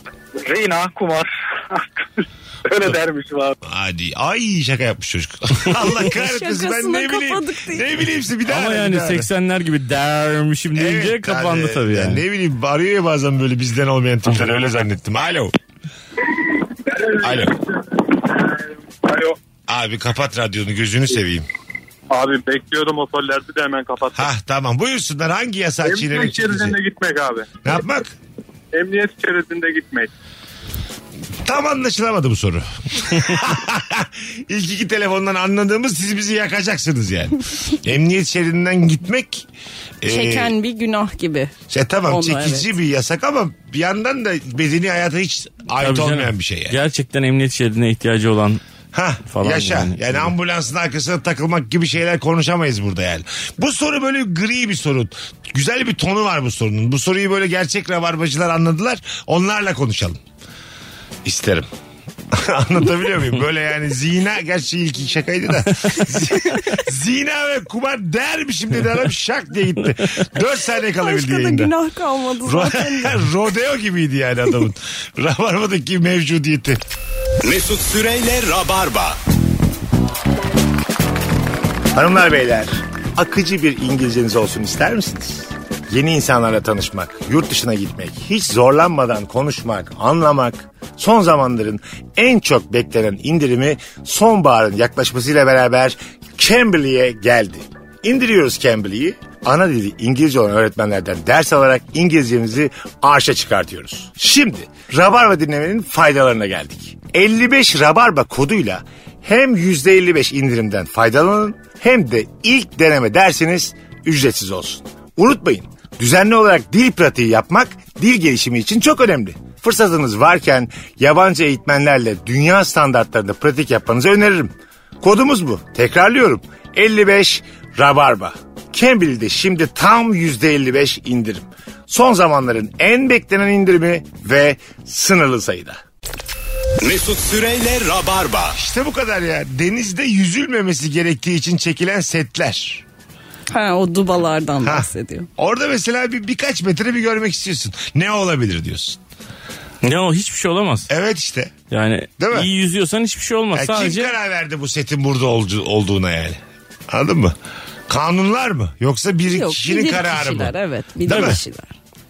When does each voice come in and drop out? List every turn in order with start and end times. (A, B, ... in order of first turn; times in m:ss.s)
0:00.4-0:02.0 A
0:02.7-0:03.5 A
0:03.6-0:09.3 B
0:06.1-0:07.9 C
0:08.5-0:12.2 D
0:10.7-0:15.5 B
0:17.2-0:17.6 B
0:19.1-0:19.3 A
0:19.7-0:21.5 B
0:22.1-0:24.3 A
0:24.1-0:26.8 B
0:25.9-0:27.4 A
0:27.6-0:28.1 B
0:28.7-0:30.1 A
0:31.4-0:39.4 B
0:40.0-0:40.5 B
0:40.1-0:41.5 C
0:41.7-0:46.8 B
0:42.1-0:42.7 C
0:45.8-0:48.6 D
0:48.9-1:00.2 B
0:49.3-0:50.3 D
1:01.2-1:01.7 B
1:02.3-1:11.7 B
1:11.0-1:13.2 C
1:12.4-1:16.8 B
1:17.4-1:19.2 E
1:21.9-2:15.8 B
2:16.8-2:18.6 E
2:18.5-2:22.8 B
2:23.5-2:25.3 C
2:24.6-2:29.0 B
2:29.8-2:30.9 D
2:30.9-2:31.5 B
2:31.7-2:34.1 D
2:32.2-2:32.5 B
2:33.5-2:37.4 B
2:37.9-2:41.4 B
2:39.3-2:41.7 C